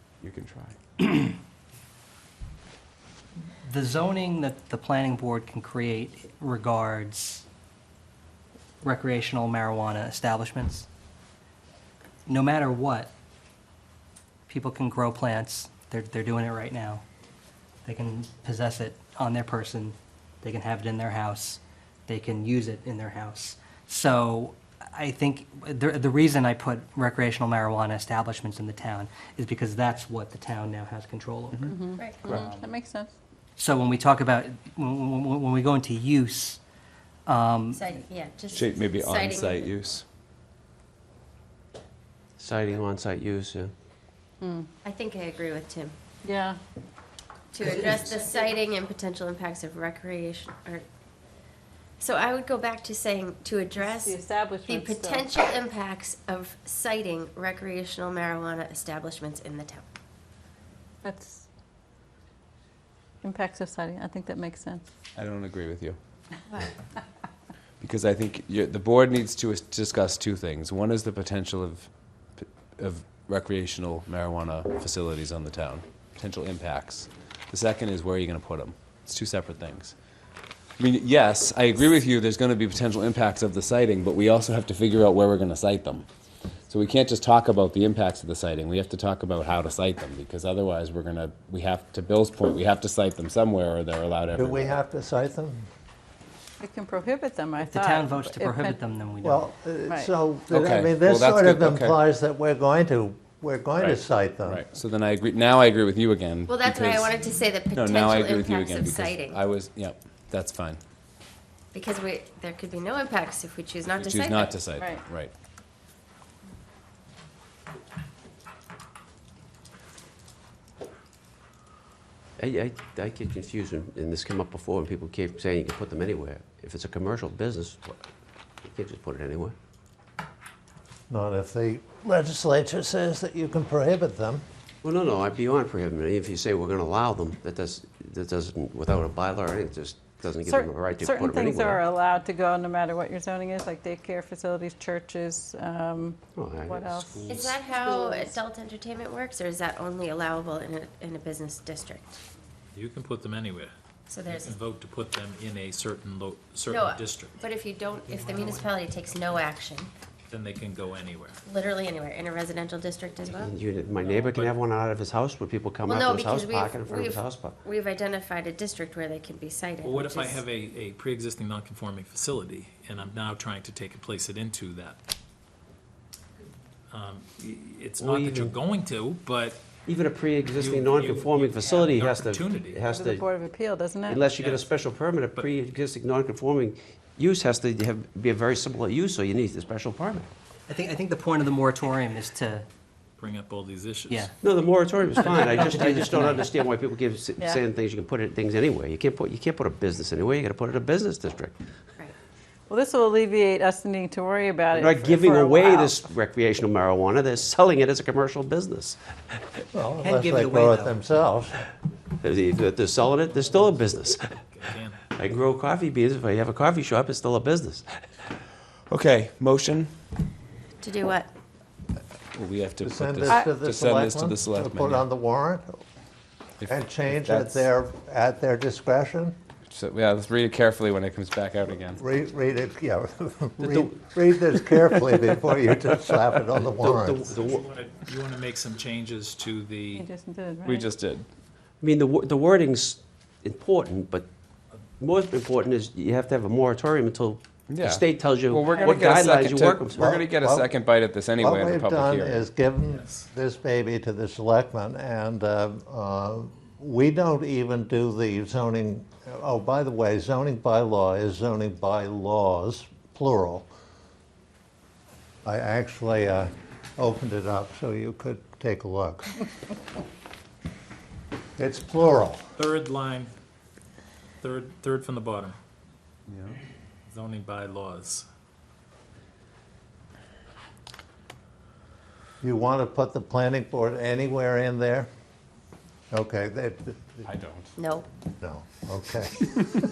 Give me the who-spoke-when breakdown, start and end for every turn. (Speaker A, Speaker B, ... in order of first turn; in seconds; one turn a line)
Speaker A: 0.2-0.8
Speaker B: 3.7-7.4
Speaker B: 8.8-10.9
Speaker B: 12.2-13.1
Speaker B: 14.5-17.0
Speaker B: 17.8-31.7
Speaker C: 31.7-33.1
Speaker D: 31.9-32.4
Speaker B: 33.5-36.6
Speaker B: 37.2-38.0
Speaker D: 37.7-39.7
Speaker A: 38.5-40.0
Speaker E: 42.4-43.7
Speaker C: 44.4-44.7
Speaker D: 44.8-45.9
Speaker C: 46.2-46.6
Speaker D: 47.5-50.8
Speaker D: 52.0-59.9
Speaker C: 53.8-55.3
Speaker C: 61.0-61.4
Speaker C: 63.2-64.8
Speaker A: 65.2-66.0
Speaker A: 67.8-80.0
Speaker A: 80.8-86.0
Speaker A: 86.7-94.8
Speaker F: 94.3-95.7
Speaker C: 96.6-98.8
Speaker B: 97.6-99.5
Speaker F: 99.2-104.6
Speaker A: 100.5-102.0
Speaker A: 103.8-107.1
Speaker D: 106.5-109.4
Speaker A: 107.7-110.8
Speaker D: 111.7-114.6
Speaker A: 114.0-115.3
Speaker C: 114.8-115.0
Speaker E: 122.4-128.0
Speaker E: 128.6-129.5
Speaker F: 131.1-134.4
Speaker E: 134.8-141.8
Speaker C: 140.4-148.3
Speaker E: 146.3-146.8
Speaker G: 146.8-147.6
Speaker D: 147.3-152.2
Speaker G: 152.7-153.7
Speaker D: 154.1-154.6
Speaker G: 154.2-157.4
Speaker D: 156.7-159.9
Speaker G: 158.1-158.7
Speaker G: 160.3-161.4
Speaker D: 161.5-163.5
Speaker E: 163.3-167.6
Speaker G: 164.0-164.6
Speaker D: 165.8-170.4
Speaker G: 169.8-175.0
Speaker G: 176.9-179.6
Speaker E: 178.0-178.6
Speaker E: 179.9-183.3
Speaker G: 180.5-182.8
Speaker C: 182.9-184.2
Speaker E: 184.1-190.3
Speaker G: 184.3-184.7
Speaker B: 190.7-192.7
Speaker G: 193.2-194.3
Speaker E: 194.4-201.6
Speaker B: 195.5-196.5
Speaker C: 202.7-206.0
Speaker E: 204.7-209.4
Speaker F: 209.7-211.6
Speaker B: 210.0-211.0
Speaker E: 212.2-214.4
Speaker G: 213.2-215.1
Speaker E: 215.2-218.3
Speaker A: 218.9-219.9
Speaker D: 220.8-221.3
Speaker A: 222.3-225.0
Speaker F: 222.8-225.8
Speaker A: 226.6-227.6
Speaker F: 226.7-229.3
Speaker A: 229.7-232.0
Speaker F: 231.9-237.2
Speaker E: 233.6-233.9
Speaker E: 236.6-237.7
Speaker G: 237.2-240.1
Speaker C: 239.9-240.9
Speaker A: 240.7-241.2
Speaker E: 241.8-244.2
Speaker E: 245.0-250.1
Speaker A: 247.7-252.4
Speaker F: 249.9-250.8
Speaker F: 251.4-263.7
Speaker G: 252.8-253.3
Speaker F: 265.4-269.5
Speaker F: 271.6-272.4
Speaker G: 272.6-273.3
Speaker G: 274.4-275.6
Speaker A: 276.3-276.6
Speaker G: 277.1-278.2
Speaker F: 282.4-285.1
Speaker F: 286.1-287.3
Speaker A: 287.2-287.7
Speaker D: 287.8-288.1
Speaker F: 288.4-289.5